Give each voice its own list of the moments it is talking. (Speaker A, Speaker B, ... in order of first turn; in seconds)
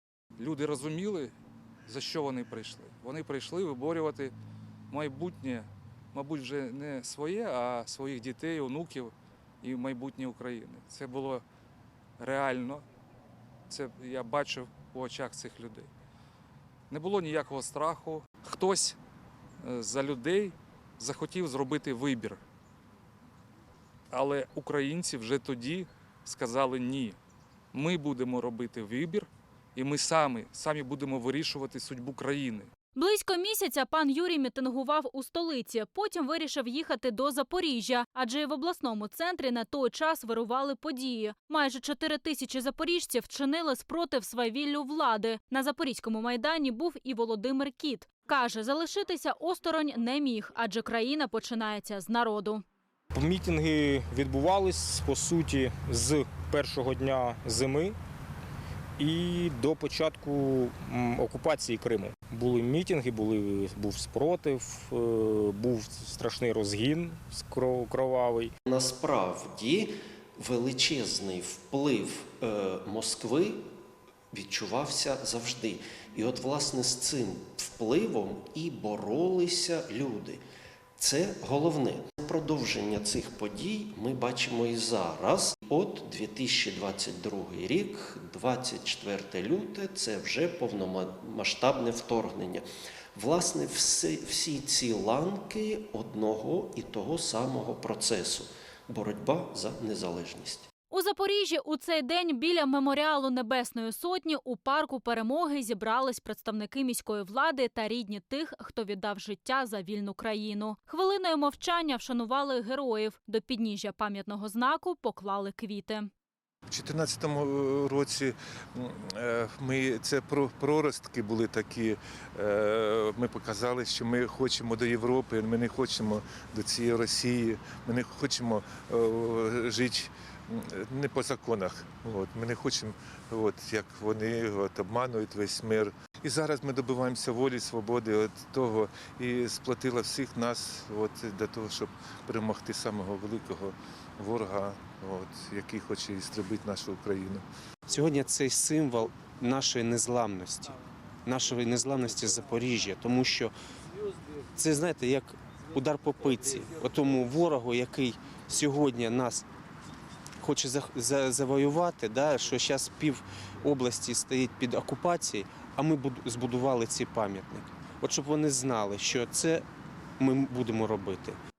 Speaker A: 0.4-1.3, 1.9-4.3, 4.9-11.4, 12.2-12.8, 13.7-15.9, 16.9-19.0, 19.6-22.4, 24.1-27.2, 27.7-32.7
Speaker B: 32.9-52.6, 100.9-116.1
Speaker C: 53.1-58.0, 59.0-68.5
Speaker D: 68.7-73.6, 74.3-80.4, 81.0-92.6, 93.2-100.7
Speaker E: 116.7-147.4
Speaker F: 147.9-153.5, 154.5-159.4, 160.4-169.7, 170.2-171.4